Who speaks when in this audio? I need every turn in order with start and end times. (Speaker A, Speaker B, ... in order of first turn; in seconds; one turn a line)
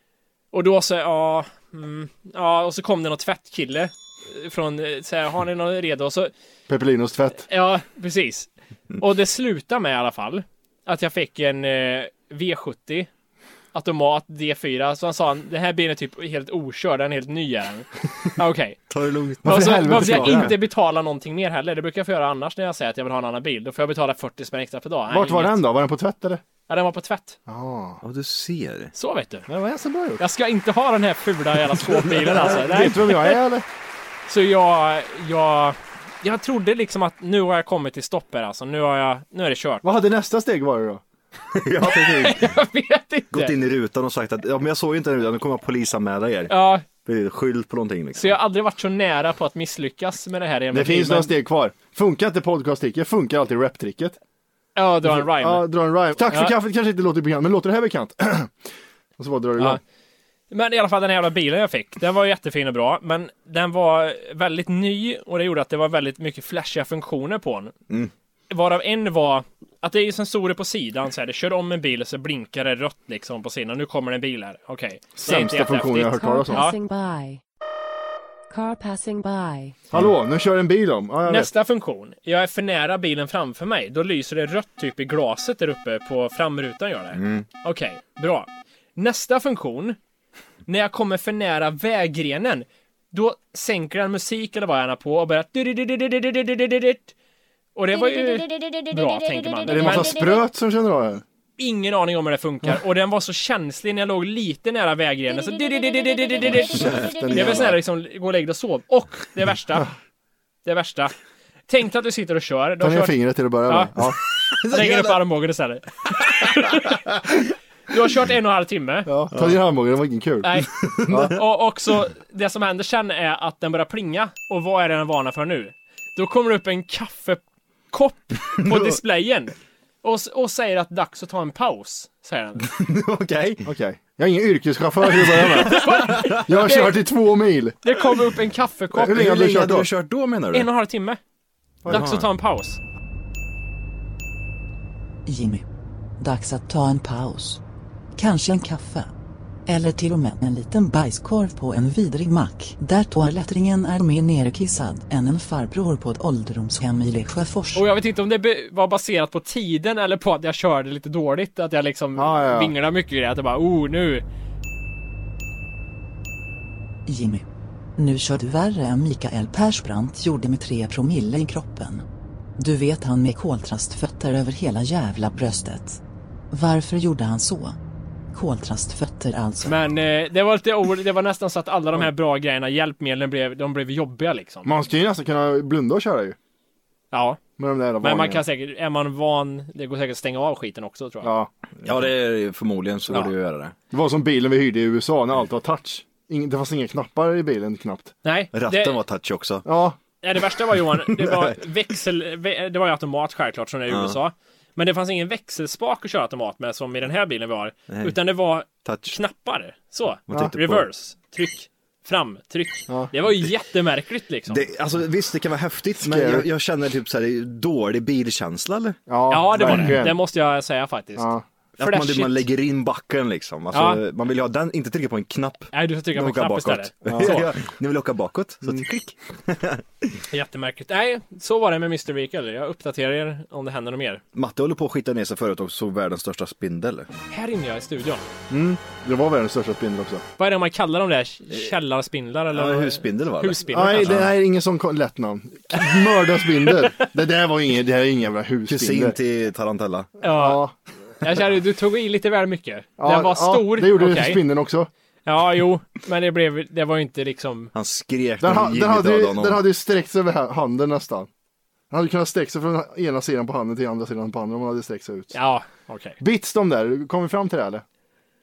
Speaker A: 0.5-6.3
Speaker B: 6.7-7.5
Speaker A: 7.5-13.1
Speaker A: 13.7-18.8
Speaker C: 18.9-20.5
Speaker A: 19.4-25.6
Speaker B: 19.4-20.5
Speaker B: 25.1-26.4
Speaker A: 26.7-27.4
Speaker B: 27.5-28.0
Speaker C: 28.0-28.9
Speaker A: 28.9-29.5
Speaker B: 29.5-30.2
Speaker A: 30.2-33.4
Speaker C: 31.9-32.5
Speaker B: 32.4-33.6
Speaker A: 34.3-39.8
Speaker B: 39.8-41.0
Speaker C: 41.5-42.5
Speaker A: 41.8-43.5
Speaker C: 43.3-48.4
Speaker A: 46.5-46.9
Speaker A: 48.2-51.3
Speaker B: 50.7-54.2
Speaker A: 54.8-56.5
Speaker B: 55.0-58.7
Speaker B: 59.2-59.8
Speaker A: 60.5-67.7
Speaker A: 68.5-76.8
Speaker B: 75.2-76.7
Speaker D: 76.2-77.4
Speaker D: 78.5-79.8
Speaker B: 79.9-81.5
Speaker A: 81.3-90.0
Speaker C: 87.1-87.5
Speaker A: 90.7-97.1
Speaker A: 97.8-100.3
Speaker D: 98.0-100.0
Speaker B: 99.7-101.2
Speaker A: 101.6-109.9
Speaker D: 105.9-106.3
Speaker B: 106.4-107.8
Speaker C: 107.4-107.6
Speaker A: 110.7-111.1
Speaker A: 111.7-113.9
Speaker B: 112.8-114.2
Speaker C: 114.4-115.2
Speaker A: 114.7-117.0
Speaker A: 117.9-119.1
Speaker B: 119.1-120.5
Speaker C: 119.3-119.6
Speaker A: 120.4-120.7
Speaker C: 120.8-121.4
Speaker B: 121.1-121.3
Speaker A: 121.2-132.7
Speaker C: 128.6-129.0
Speaker C: 132.6-133.7
Speaker B: 133.7-135.8
Speaker C: 135.2-136.7
Speaker A: 135.6-137.0
Speaker B: 136.4-137.8
Speaker A: 137.8-139.1
Speaker C: 138.9-140.7
Speaker B: 139.0-139.9
Speaker A: 140.5-141.2
Speaker A: 141.9-142.8
Speaker C: 141.9-142.3
Speaker E: 145.3-145.6
Speaker E: 146.2-147.6
Speaker E: 148.2-149.1
Speaker E: 149.7-157.9
Speaker A: 157.7-164.2
Speaker B: 162.2-162.7
Speaker E: 167.1-167.4
Speaker E: 168.0-172.0
Speaker E: 172.6-176.0
Speaker E: 176.5-177.8
Speaker E: 178.3-179.8
Speaker A: 179.6-184.7
Speaker B: 184.7-186.4
Speaker A: 187.1-187.4
Speaker B: 187.6-188.4
Speaker A: 188.0-191.3
Speaker B: 191.2-191.5
Speaker C: 191.8-193.8
Speaker B: 193.9-198.1
Speaker A: 198.2-199.0
Speaker C: 198.5-199.7
Speaker B: 199.7-200.0
Speaker A: 200.2-214.7
Speaker C: 201.1-201.5
Speaker C: 203.9-204.2
Speaker C: 207.9-209.2
Speaker C: 210.3-210.9
Speaker C: 214.5-219.0
Speaker B: 216.0-216.5
Speaker B: 219.1-220.2
Speaker A: 219.3-221.3
Speaker C: 219.5-220.0
Speaker B: 221.2-221.4
Speaker C: 221.8-230.2
Speaker A: 221.8-222.4
Speaker A: 223.7-224.0
Speaker A: 225.7-227.5
Speaker B: 227.1-227.4
Speaker A: 230.3-234.2
Speaker C: 234.3-237.1
Speaker A: 237.3-238.2
Speaker B: 238.5-240.2
Speaker A: 240.4-244.2
Speaker C: 242.5-244.3
Speaker B: 243.7-249.2
Speaker C: 248.7-250.1
Speaker A: 250.2-250.6
Speaker B: 250.2-250.8
Speaker A: 251.2-254.4
Speaker B: 253.0-254.9
Speaker A: 255.2-257.7
Speaker C: 257.7-259.6
Speaker B: 258.4-261.3
Speaker B: 261.9-265.3
Speaker A: 265.3-266.2
Speaker B: 266.2-267.8